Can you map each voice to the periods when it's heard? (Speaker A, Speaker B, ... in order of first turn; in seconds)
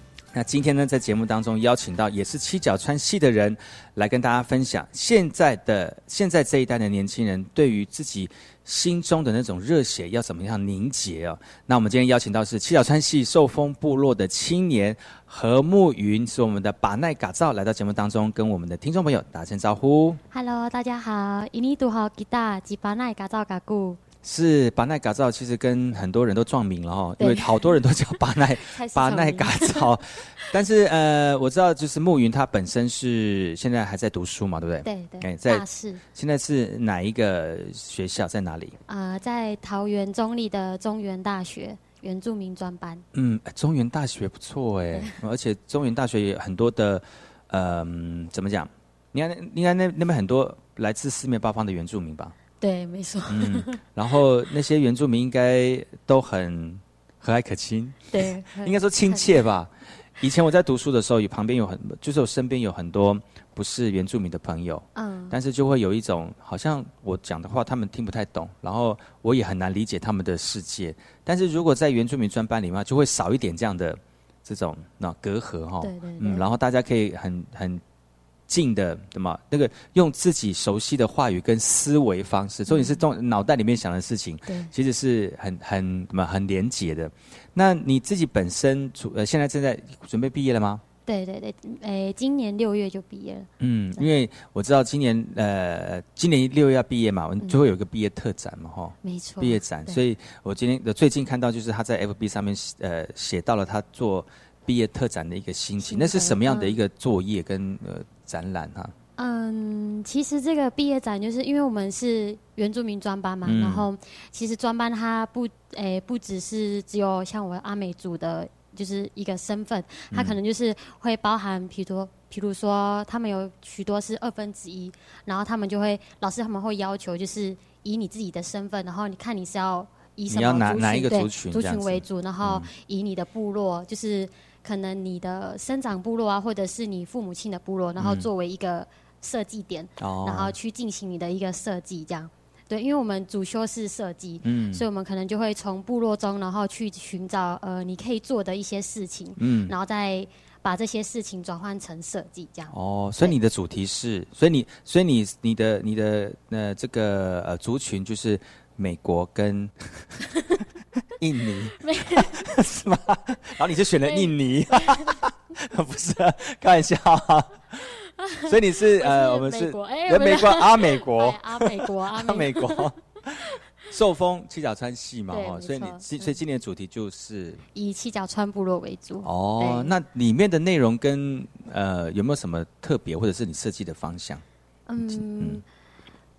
Speaker A: 0.3-20.2, 24.2-38.8, 43.1-52.4, 53.3-77.8, 78.5-90.8, 93.6-108.9, 113.4-113.8, 120.1-120.4, 130.3-132.7, 138.0-138.3, 140.0-140.5, 144.4-144.8, 149.4-149.7, 152.7-160.1, 161.2-167.8, 168.5-173.4, 173.9-177.6, 179.2-184.4, 185.0-185.6
Speaker B: 20.3-24.0, 27.2-27.7, 28.6-30.0, 34.8-36.0, 38.9-43.0, 52.6-53.8, 58.1-59.5, 64.9-65.4, 75.8-76.5, 82.7-83.0, 84.5-84.7, 91.0-94.1, 99.0-100.0, 105.8-106.8, 109.2-153.4, 161.8-162.5, 164.0-165.1, 168.2-172.9, 175.3-176.4, 177.7-179.9, 184.9-185.6